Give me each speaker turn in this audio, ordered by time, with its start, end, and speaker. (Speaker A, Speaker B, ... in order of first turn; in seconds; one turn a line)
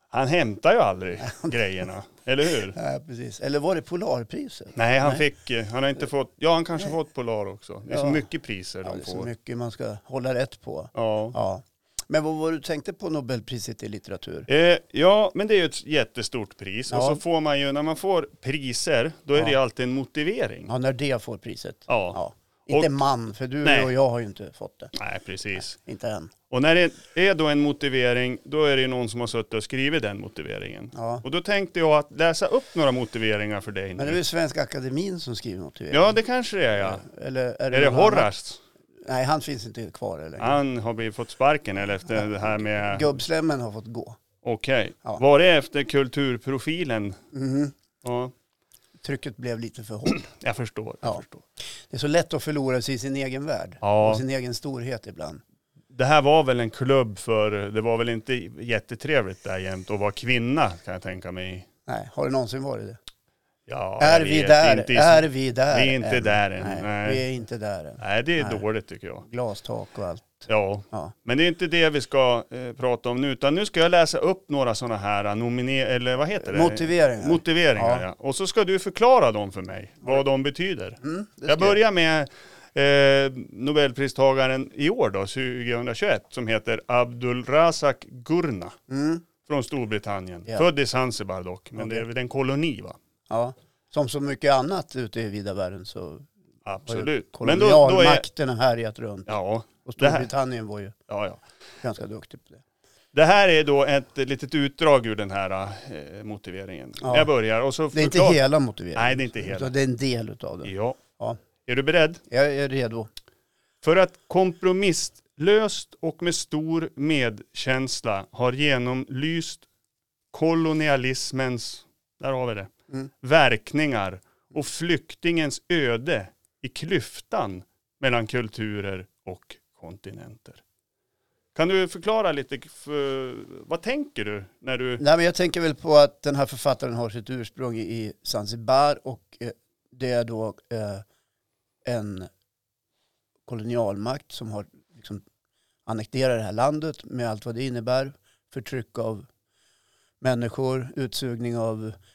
Speaker A: 0.1-2.8
Speaker B: 1.2-1.6
Speaker B: 2.7-5.3
Speaker A: 4.8-9.3
Speaker B: 7.9-8.3
Speaker B: 8.8-14.5
Speaker A: 10.9-11.4
Speaker A: 14.5-20.7
Speaker B: 16.9-17.2
Speaker B: 20.7-24.9
Speaker A: 21.9-23.0
Speaker A: 23.6-23.9
Speaker A: 24.9-25.8
Speaker B: 25.6-26.3
Speaker A: 26.5-34.2
Speaker B: 30.9-31.2
Speaker B: 34.0-36.2
Speaker A: 35.9-37.0
Speaker B: 36.8-38.3
Speaker A: 37.7-38.6
Speaker B: 39.0-40.6
Speaker A: 40.4-43.1
Speaker B: 42.1-44.2
Speaker A: 44.4-47.2
Speaker B: 47.3-47.8
Speaker A: 48.0-48.3
Speaker B: 49.0-50.3
Speaker A: 50.1-51.5
Speaker B: 51.9-55.4
Speaker A: 53.8-54.2
Speaker A: 55.9-61.7
Speaker B: 61.9-63.0
Speaker A: 63.7-67.2
Speaker B: 64.0-68.6
Speaker A: 68.0-69.3
Speaker B: 69.3-71.1
Speaker A: 70.5-88.8
Speaker B: 76.4-78.0
Speaker B: 81.0-81.8
Speaker B: 88.9-89.2
Speaker A: 89.4-93.0
Speaker B: 91.8-92.0
Speaker B: 93.3-96.3
Speaker A: 96.7-98.3
Speaker B: 96.9-99.3
Speaker A: 99.3-100.3
Speaker B: 99.8-101.0
Speaker A: 101.1-101.4
Speaker B: 101.8-102.6
Speaker A: 103.1-108.4
Speaker B: 107.0-107.3
Speaker B: 107.9-111.4
Speaker A: 109.0-109.7
Speaker A: 110.6-111.0
Speaker A: 111.7-112.2
Speaker B: 112.3-113.1
Speaker A: 113.8-119.7
Speaker A: 120.3-122.7
Speaker A: 123.2-130.6
Speaker A: 131.6-135.0
Speaker B: 135.0-141.0
Speaker B: 141.8-142.3
Speaker B: 143.5-145.2
Speaker B: 145.9-149.3
Speaker B: 150.2-152.0